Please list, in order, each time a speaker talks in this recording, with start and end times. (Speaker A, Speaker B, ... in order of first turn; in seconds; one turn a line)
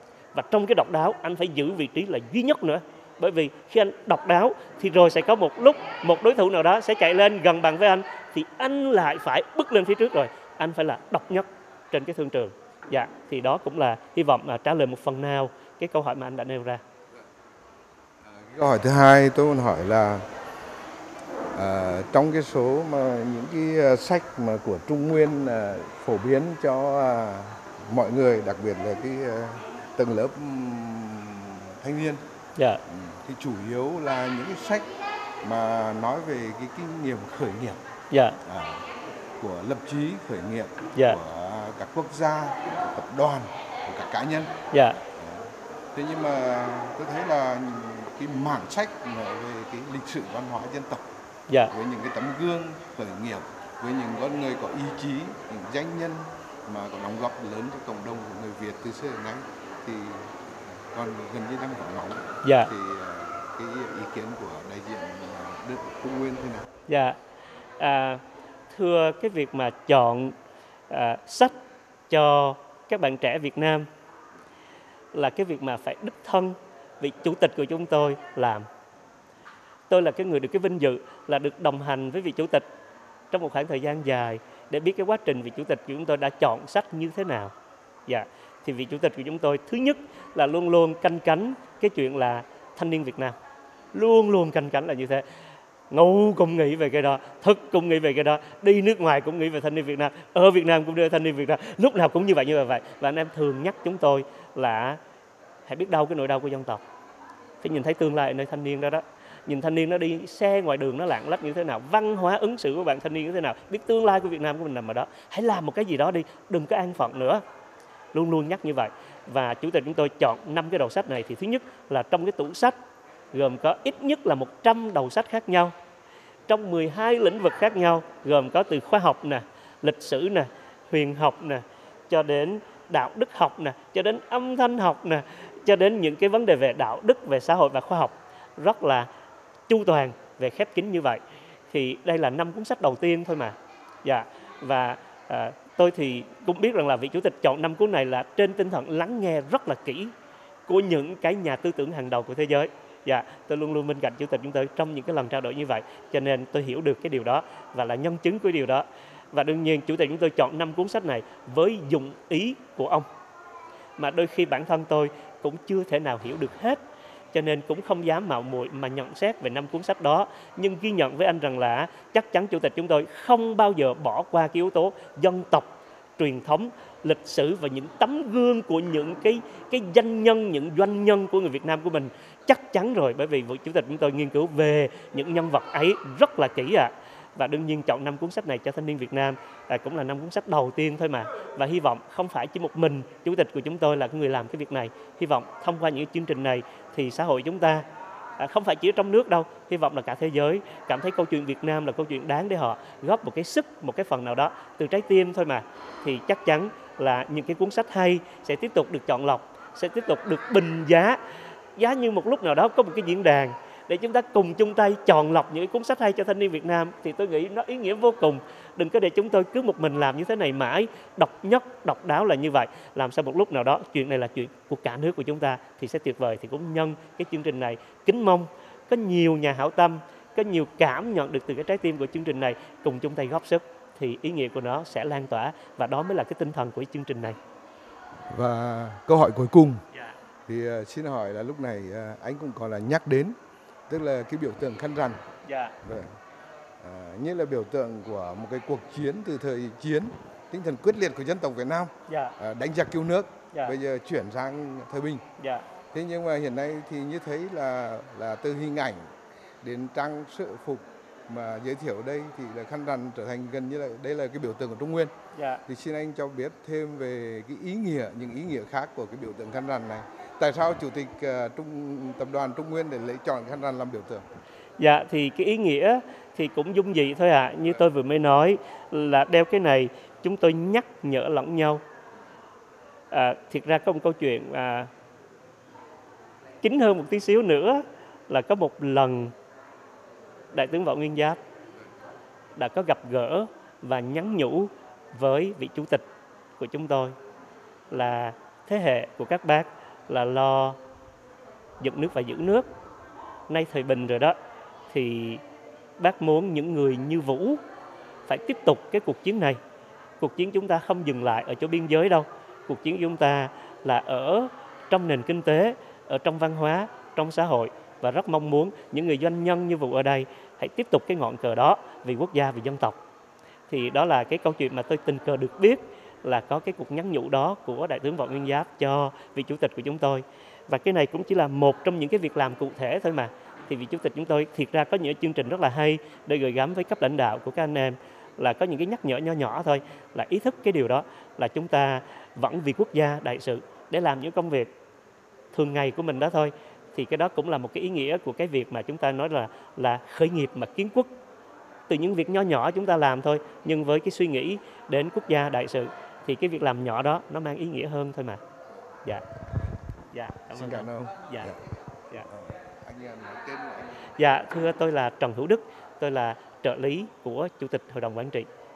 Speaker A: 0.3-16.8
Speaker B: 18.2-20.2
Speaker B: 21.5-32.2
Speaker B: 32.9-34.9
Speaker B: 35.4-37.8
Speaker A: 38.1-38.4
Speaker B: 38.4-38.9
Speaker B: 39.4-44.5
Speaker A: 44.7-45.0
Speaker B: 45.1-51.0
Speaker B: 51.7-66.7
Speaker A: 62.4-62.7
Speaker A: 66.9-67.2
Speaker A: 67.8-70.3
Speaker A: 70.9-71.5
Speaker A: 72.1-73.9
Speaker A: 75.1-78.7
Speaker A: 79.9-82.6
Speaker A: 83.3-87.5
Speaker A: 88.1-93.3
Speaker A: 93.9-95.2
Speaker A: 95.9-105.0
Speaker A: 105.7-106.8
Speaker A: 107.6-117.4
Speaker A: 118.1-122.8
Speaker A: 123.3-125.7
Speaker A: 126.5-139.1
Speaker A: 139.7-150.1
Speaker A: 150.7-163.1
Speaker A: 164.0-166.8
Speaker A: 167.3-197.8
Speaker A: 198.4-211.2
Speaker A: 211.8-237.4
Speaker B: 238.3-239.8
Speaker B: 240.5-243.3
Speaker B: 243.9-245.2
Speaker A: 245.4-245.7
Speaker B: 245.8-246.1
Speaker B: 246.8-255.2
Speaker A: 252.1-252.3
Speaker A: 255.4-255.7
Speaker B: 255.9-259.1
Speaker B: 259.6-265.1
Speaker A: 265.3-265.6
Speaker B: 265.6-274.2
Speaker A: 274.8-281.8
Speaker A: 283.1-284.9
Speaker A: 286.6-289.3
Speaker A: 290.5-291.4
Speaker A: 292.6-296.0
Speaker A: 296.6-297.1
Speaker A: 297.9-300.8
Speaker A: 301.8-302.7
Speaker A: 303.5-304.4
Speaker A: 304.9-305.4
Speaker A: 306.0-307.6
Speaker A: 308.3-309.6
Speaker A: 310.2-323.0
Speaker A: 323.7-344.7
Speaker A: 345.5-351.1
Speaker A: 351.9-358.4
Speaker A: 360.1-361.5
Speaker B: 360.5-361.6
Speaker B: 362.2-364.1
Speaker A: 364.2-368.5